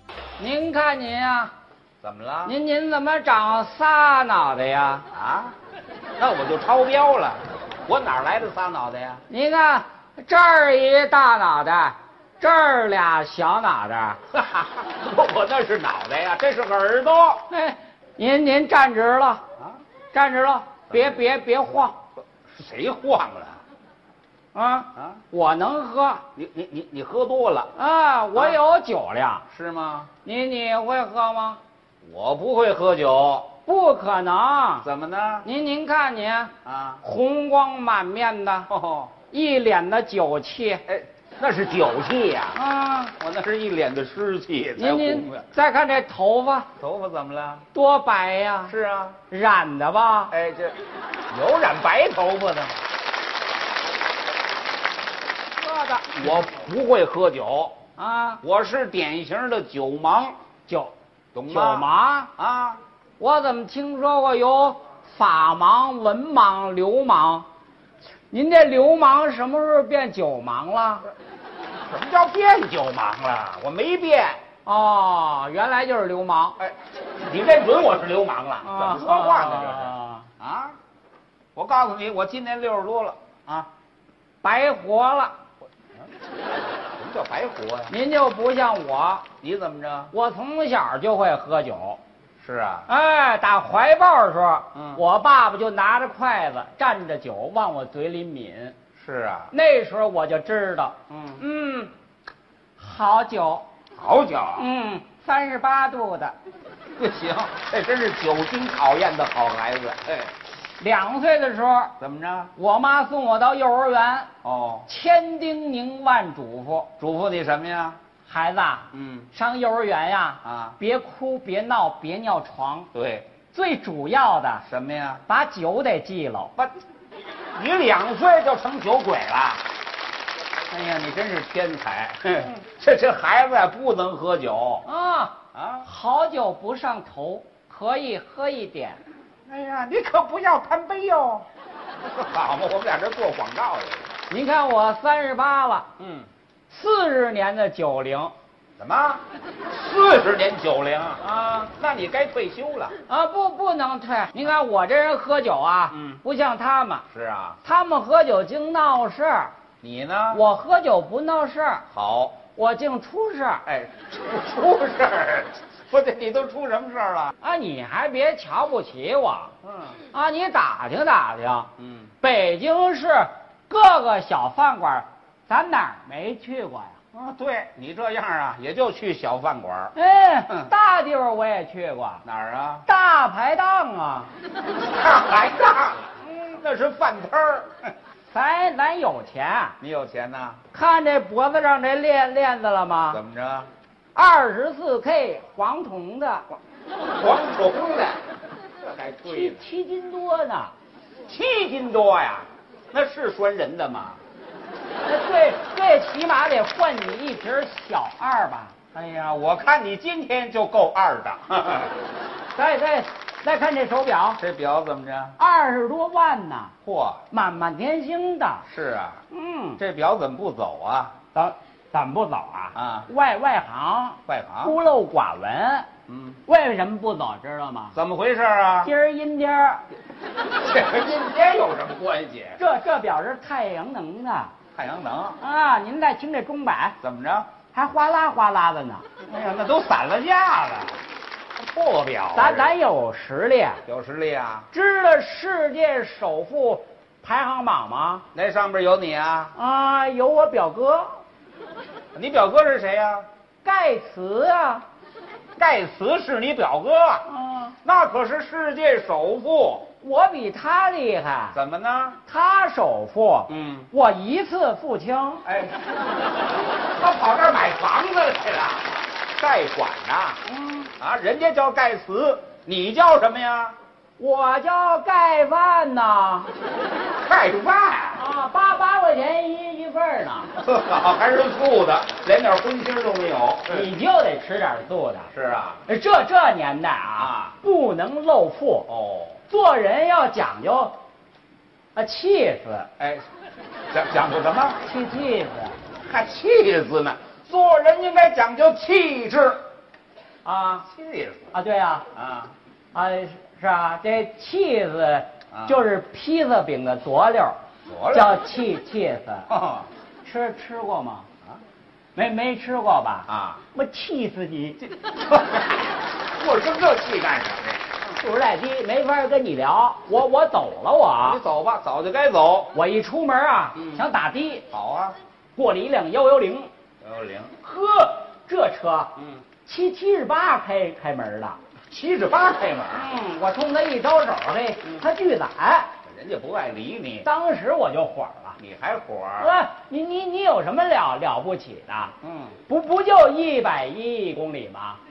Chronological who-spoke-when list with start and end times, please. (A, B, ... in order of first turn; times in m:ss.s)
0:00.4-0:01.5 A
0:02.0-0:02.5 B
0:02.4-0:05.0 A
0:05.1-0:05.6 B
0:06.2-0:09.2 B
0:09.3-0:14.2 A
0:14.3-0:17.5 B
0:17.5-0:19.4 A
0:20.1-0:22.0 A
0:20.9-0:21.2 B
0:22.4-0:23.6 B
0:24.5-0:26.2 A
0:26.4-0:27.7 B
0:27.8-0:29.4 A
0:29.5-0:30.1 B
0:30.2-0:31.6 A
0:32.0-0:33.5 B
0:33.6-0:34.9 A
0:34.8-0:35.5 B
0:35.4-0:38.7 A
0:36.6-0:37.0 B
0:38.7-0:39.1 B
0:39.3-0:40.8 A
0:40.9-0:42.6 B
0:42.5-0:43.1 A
0:43.2-0:45.5 B
0:44.8-0:46.7 A
0:46.8-0:47.6 B
0:47.7-0:48.8 A
0:48.7-0:49.2 B
0:49.3-0:50.3 A
0:50.3-0:50.8 B
0:51.3-0:52.8 B
0:55.6-0:56.2 A
0:56.1-0:57.8 B
0:58.0-0:58.4 A
0:58.4-1:00.4 B
1:00.7-1:00.9 A
1:01.3-1:02.8 B
1:01.5-1:02.3 A
1:03.2-1:07.5 A
1:08.3-1:11.1 A
1:11.9-1:14.4 B
1:14.6-1:16.6 A
1:16.6-1:20.8 B
1:18.6-1:20.3 A
1:21.6-1:23.7 B
1:24.4-1:25.4 A
1:27.0-1:27.9 B
1:27.9-1:29.3 A
1:29.4-1:30.1 B
1:30.1-1:32.0 A
1:32.4-1:32.9 B
1:32.9-1:38.8 A
1:34.7-1:35.0 B
1:39.0-1:39.5 B
1:39.5-1:41.9 A
1:42.8-1:43.7 A
1:44.0-1:44.7 B
1:44.6-1:46.4 A
1:47.0-1:50.3 B
1:50.8-1:51.9 A
1:52.0-1:52.5 B
1:52.6-1:54.3 A
1:54.4-1:54.9 B
1:54.9-1:56.9 A
1:57.0-1:58.0 B
1:58.3-2:02.9 A
1:58.9-1:59.3 B
2:00.4-2:00.8 B
2:02.9-2:03.3 B
2:03.5-2:04.6 A
2:04.6-2:05.2 B
2:05.3-2:06.5 A
2:07.6-2:09.6 B
2:10.7-2:14.8 B
2:14.8-2:19.0 A
2:15.5-2:15.9 B
2:19.5-2:21.5 B
2:22.1-2:24.1 B
2:24.3-2:25.9 A
2:26.0-2:26.3 B
2:26.7-2:28.3 A
2:28.8-2:33.0 B
2:33.1-2:37.0 A
2:35.9-2:36.2 B
2:37.1-2:37.6 B
2:37.6-2:39.5 A
2:39.8-2:40.4 B
2:40.3-2:41.8 A
2:41.9-2:42.4 B
2:42.6-2:43.6 A
2:43.7-2:47.4 B
2:47.4-2:49.5 A
2:49.6-2:50.0 B
2:50.1-2:57.0 A
2:51.8-2:52.1 B
2:57.1-2:59.9 B
3:00.0-3:02.2 A
3:02.2-3:02.8 B
3:02.8-3:04.3 A
3:04.8-3:07.8 B
3:08.3-3:09.8 A
3:09.8-3:10.6 B
3:10.7-3:13.2 A
3:13.1-3:13.7 B
3:14.1-3:16.5 A
3:17.1-3:18.2 B
3:18.8-3:19.7 B
3:19.2-3:20.7 A
3:21.3-3:24.2 B
3:25.0-3:28.8 A
3:28.9-3:32.0 B
3:32.5-3:34.4 A
3:34.4-3:35.4 B
3:35.4-3:36.8 A
3:36.8-3:37.2 B
3:37.3-3:38.7 A
3:38.7-3:39.2 B
3:39.3-3:39.8 A
3:39.8-3:41.1 B
3:41.3-3:45.9 A
3:42.8-3:43.1 B
3:44.3-3:44.8 B
3:46.1-3:46.4 B
3:46.5-3:48.0 A
3:47.9-3:48.9 B
3:48.8-3:49.9 A
3:50.5-3:52.6 B
3:52.6-3:54.5 A
3:54.8-3:55.4 B
3:55.4-3:57.0 A
3:57.0-3:57.5 B
3:57.7-3:59.1 A
3:59.2-4:01.0 B
4:01.6-4:02.8 B
4:02.3-4:03.8 A
4:03.9-4:04.7 B
4:04.7-4:08.3 A
4:08.3-4:09.6 B
4:09.6-4:11.2 A
4:12.1-4:13.3 B
4:13.6-4:14.8 A
4:15.6-4:17.2 B
4:17.3-4:17.8 A
4:17.8-4:19.9 B
4:20.0-4:21.6 A
4:21.5-4:22.2 B
4:22.3-4:25.4 A
4:23.5-4:23.9 B
4:25.4-4:25.8 B
4:27.0-4:30.4 B
4:30.5-4:30.9 A
4:31.0-4:33.8 B
4:34.2-4:36.5 A
4:37.2-4:38.2 B
4:38.2-4:40.5 A
4:40.6-4:43.9 B
4:43.7-4:45.3 A
4:45.3-4:45.8 B
4:45.9-4:48.9 A
4:47.2-4:47.6 B
4:48.9-4:49.4 B
4:49.5-4:51.0 A
4:52.0-4:52.9 A
4:53.0-4:53.3 B
4:53.9-4:54.8 B
4:54.8-4:55.8 A
4:56.0-4:59.6 B
5:00.4-5:00.9 A
5:00.9-5:01.6 B
5:01.5-5:02.1 A
5:02.1-5:02.5 B
5:02.9-5:07.6 A
5:05.5-5:05.8 B
5:07.9-5:08.4 B
5:08.1-5:09.5 A
5:09.5-5:09.9 B
5:10.2-5:11.3 A
5:12.2-5:14.8 A
5:13.3-5:13.6 B
5:14.8-5:17.9 B
5:18.1-5:21.4 A
5:21.2-5:22.7 B
5:22.7-5:24.6 A
5:23.8-5:24.0 B
5:24.7-5:25.2 B
5:25.6-5:26.7 A
5:27.0-5:27.6 B
5:27.6-5:31.6 A
5:29.2-5:29.4 B
5:31.9-5:33.1 B
5:32.9-5:35.9 A
5:36.0-5:37.3 B
5:37.2-5:38.6 A
5:38.6-5:39.5 B
5:39.4-5:45.0 A
5:42.2-5:42.6 B